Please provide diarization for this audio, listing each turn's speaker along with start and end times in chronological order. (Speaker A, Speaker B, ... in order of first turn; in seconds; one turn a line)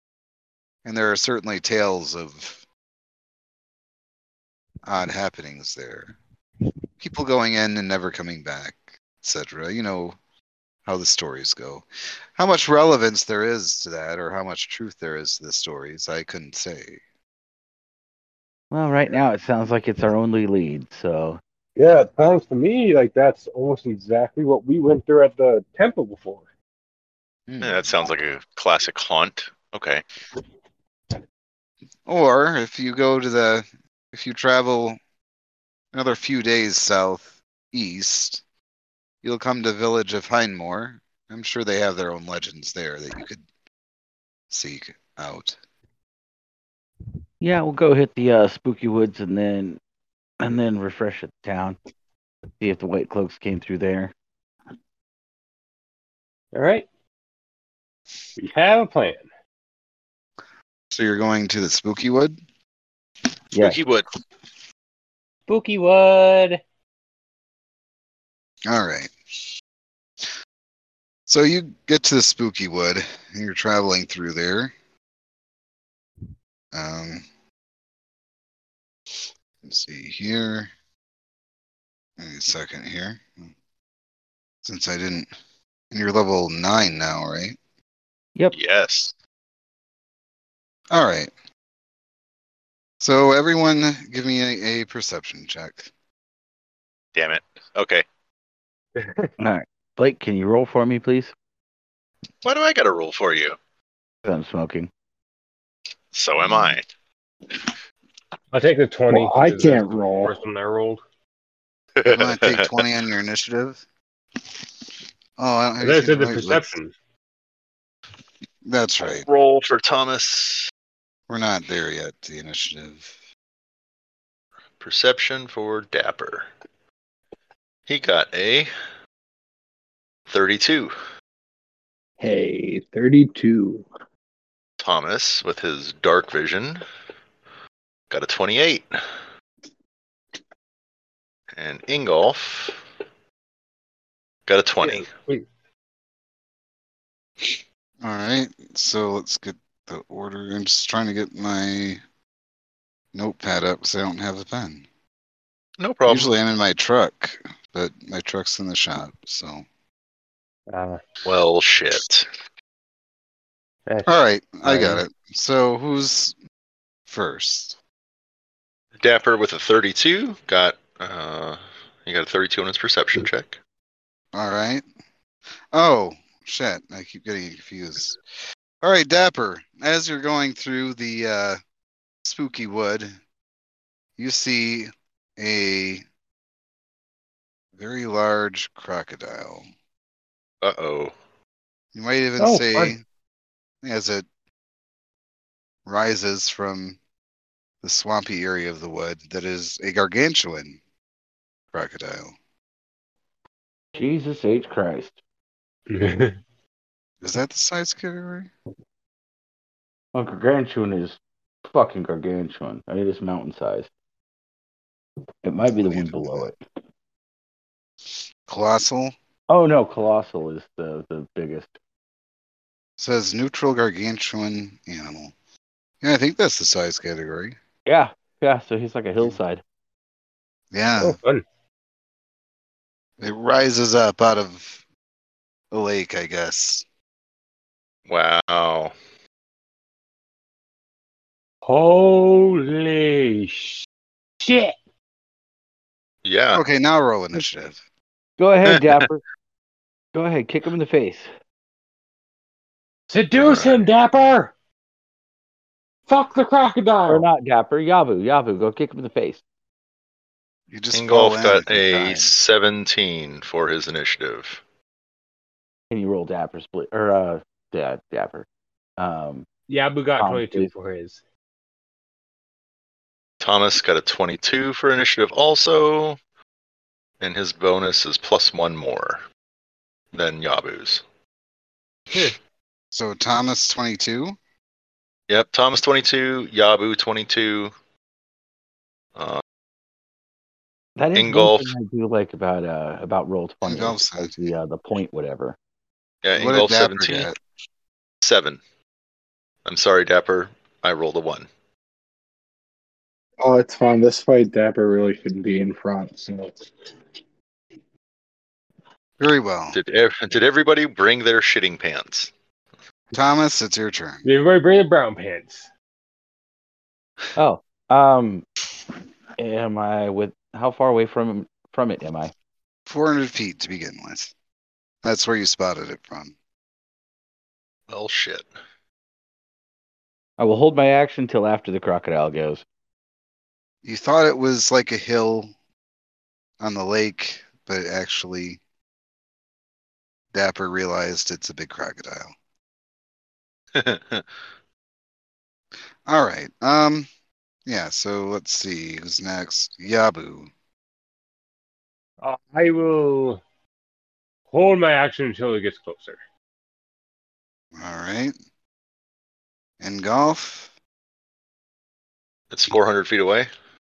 Speaker A: 0.8-2.6
Speaker A: 4.8-6.2
Speaker A: 7.0-10.2
Speaker A: 10.8-17.0
Speaker B: 18.7-21.4
Speaker C: 21.8-26.4
Speaker A: 27.5-28.1
Speaker D: 27.6-30.0
Speaker A: 32.0-35.0
Speaker A: 35.9-38.4
Speaker A: 39.2-43.4
Speaker A: 44.5-45.6
Speaker B: 47.4-49.8
Speaker B: 50.4-51.8
Speaker B: 52.6-54.1
Speaker C: 56.5-56.9
Speaker C: 58.4-59.2
Speaker A: 60.9-62.4
Speaker B: 63.5-63.8
Speaker D: 63.5-64.0
Speaker C: 65.5-66.6
Speaker A: 68.7-69.1
Speaker A: 71.3-74.7
Speaker A: 76.7-77.2
Speaker A: 79.6-80.7
Speaker A: 82.2-83.5
Speaker A: 84.6-85.3
Speaker A: 85.9-87.6
Speaker D: 88.5-89.1
Speaker A: 90.9-91.3
Speaker A: 93.0-95.9
Speaker D: 97.1-98.0
Speaker C: 99.0-99.3
Speaker B: 99.4-101.3
Speaker D: 102.4-103.6
Speaker B: 104.2-104.9
Speaker D: 106.1-106.8
Speaker C: 108.5-111.0
Speaker E: 109.1-110.3
Speaker D: 112.0-112.8
Speaker A: 112.1-113.8
Speaker A: 115.4-116.7
Speaker C: 115.8-116.9
Speaker A: 118.6-119.3
Speaker D: 119.0-120.7
Speaker A: 121.3-123.1
Speaker D: 124.8-126.5
Speaker D: 127.9-128.7
Speaker D: 130.3-130.9
Speaker E: 132.2-133.9
Speaker D: 134.8-136.8
Speaker D: 138.1-139.0
Speaker D: 141.6-142.8
Speaker D: 144.5-145.1
Speaker C: 144.8-145.4
Speaker A: 148.0-152.0
Speaker A: 153.1-154.8
Speaker D: 155.8-156.3
Speaker A: 156.1-159.6
Speaker C: 160.7-161.0
Speaker D: 161.2-162.3
Speaker C: 163.9-164.1
Speaker A: 164.1-166.3
Speaker C: 164.7-165.0
Speaker A: 167.1-167.8
Speaker D: 169.0-173.6
Speaker A: 174.3-174.8
Speaker A: 175.7-178.2
Speaker A: 178.8-181.6
Speaker A: 182.2-183.1
Speaker A: 184.2-186.0
Speaker A: 187.8-189.6
Speaker D: 190.6-191.1
Speaker A: 191.9-193.0
Speaker C: 192.4-192.9
Speaker A: 193.8-194.2
Speaker A: 195.8-197.0
Speaker A: 197.8-200.8
Speaker A: 201.7-202.3
Speaker B: 203.9-205.2
Speaker C: 205.9-206.4
Speaker A: 207.2-208.5
Speaker B: 210.1-213.9
Speaker B: 215.4-216.6
Speaker A: 215.7-216.5
Speaker A: 218.5-219.1
Speaker B: 219.5-221.7
Speaker A: 223.0-225.3
Speaker A: 226.0-227.6
Speaker B: 227.8-229.6
Speaker A: 230.7-231.2
Speaker C: 231.0-231.4
Speaker A: 233.2-234.8
Speaker A: 235.7-236.8
Speaker D: 238.1-238.9
Speaker C: 241.6-243.8
Speaker C: 244.4-244.8
Speaker D: 246.2-246.6
Speaker A: 246.5-247.8
Speaker B: 248.4-249.2
Speaker B: 250.1-251.3
Speaker C: 253.1-254.5
Speaker D: 253.3-253.8
Speaker C: 256.1-257.2
Speaker B: 257.1-259.4
Speaker A: 260.7-262.3
Speaker D: 260.9-264.6
Speaker B: 265.9-268.4
Speaker B: 269.0-269.5
Speaker C: 269.7-271.2
Speaker B: 270.2-270.7
Speaker D: 273.4-276.2
Speaker D: 277.2-279.2
Speaker D: 280.1-281.0
Speaker A: 282.9-284.4
Speaker D: 285.3-287.7
Speaker D: 289.1-289.4
Speaker B: 291.0-295.6
Speaker D: 291.1-291.7
Speaker A: 293.6-294.4
Speaker D: 296.2-297.3
Speaker A: 296.3-297.4
Speaker D: 298.2-298.6
Speaker D: 299.6-301.5
Speaker E: 303.4-306.5
Speaker A: 309.2-309.8
Speaker D: 309.7-312.3
Speaker A: 313.1-314.2
Speaker C: 314.2-315.7
Speaker B: 317.3-318.4
Speaker B: 319.4-322.3
Speaker A: 322.9-324.3
Speaker A: 325.0-326.3
Speaker D: 327.9-328.5
Speaker B: 330.4-332.6
Speaker A: 333.8-335.5
Speaker A: 336.6-338.6
Speaker A: 340.3-342.3
Speaker D: 343.7-344.2
Speaker A: 346.1-347.1
Speaker A: 347.6-350.5
Speaker C: 352.2-353.4
Speaker C: 354.5-356.2
Speaker A: 357.8-358.3
Speaker A: 359.8-360.7
Speaker D: 362.5-363.5